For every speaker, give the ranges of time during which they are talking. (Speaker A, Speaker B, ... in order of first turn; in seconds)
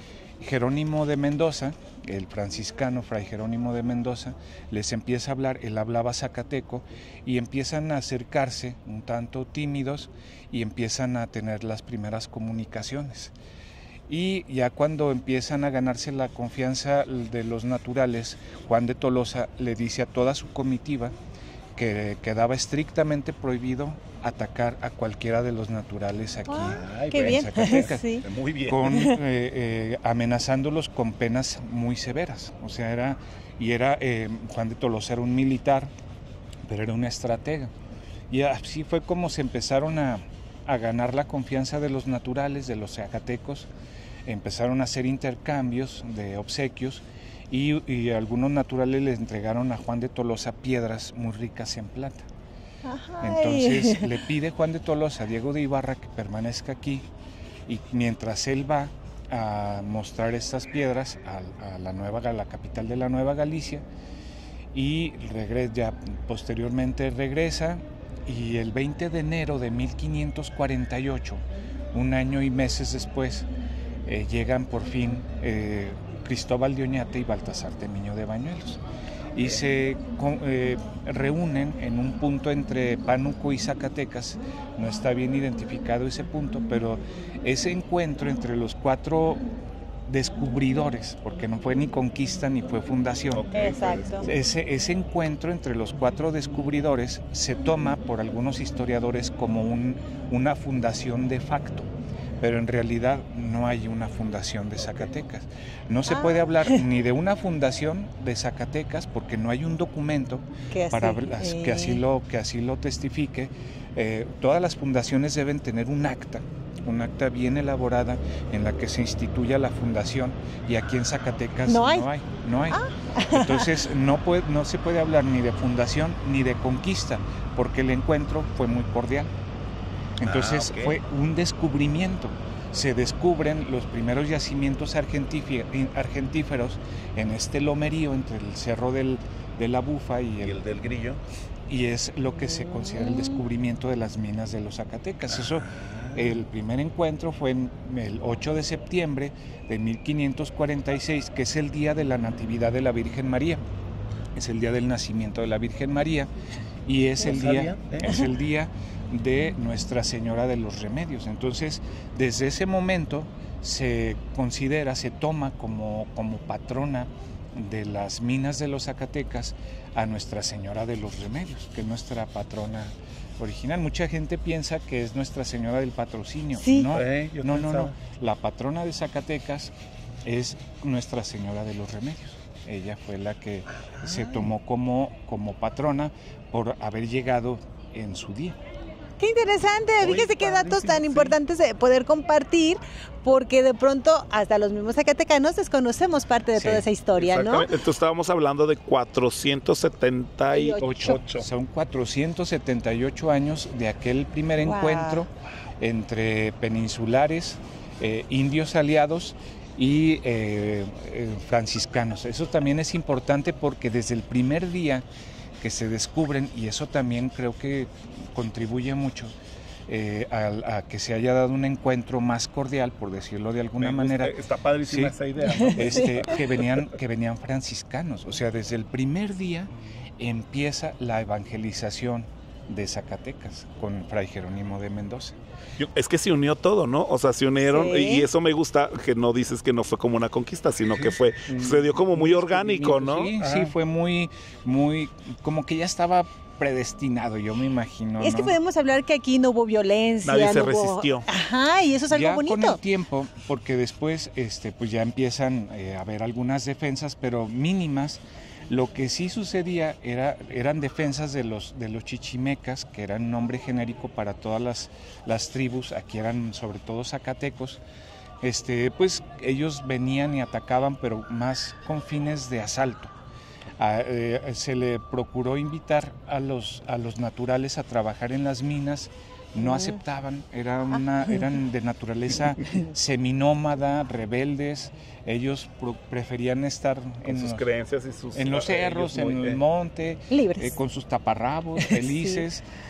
Speaker A: 0.4-13.3, 14.1-21.1, 21.8-35.9, 36.6-37.7, 38.3-43.7, 44.2-52.3, 53.2-57.0, 57.7-63.8, 64.7-73.5, 74.0-78.8, 79.3-89.4, 90.1-93.5, 94.2-101.9, 102.4-122.8, 123.3-129.3, 130.2-140.6, 141.7-153.6, 154.3-156.3, 156.8-179.7, 180.2-188.6, 196.5-196.8, 200.8-215.0, 215.6-219.3, 219.9-225.1, 225.7-235.4, 241.5-248.6, 252.1-267.8, 268.4-273.1, 273.8-287.6, 288.3-292.6
Speaker B: 26.5-28.2, 28.9-29.2, 52.8-54.1, 93.5-94.3, 106.1-106.8, 110.7-112.0, 121.7-122.1, 122.7-123.8, 142.9-143.2, 176.6-176.9, 189.2-197.7, 200.5-201.2, 204.6-205.2, 225.5-226.1, 237.7-238.3, 248.2-252.8, 279.6-280.0, 290.3-290.8, 291.8-292.4
Speaker C: 26.6-28.9, 93.3-94.3, 130.2-131.0, 140.4-141.2, 145.3-146.4, 157.2-158.3, 176.9-177.9, 183.8-184.5, 190.0-191.3, 197.2-201.4, 223.8-226.6, 235.8-243.7, 250.2-251.2, 287.2-289.6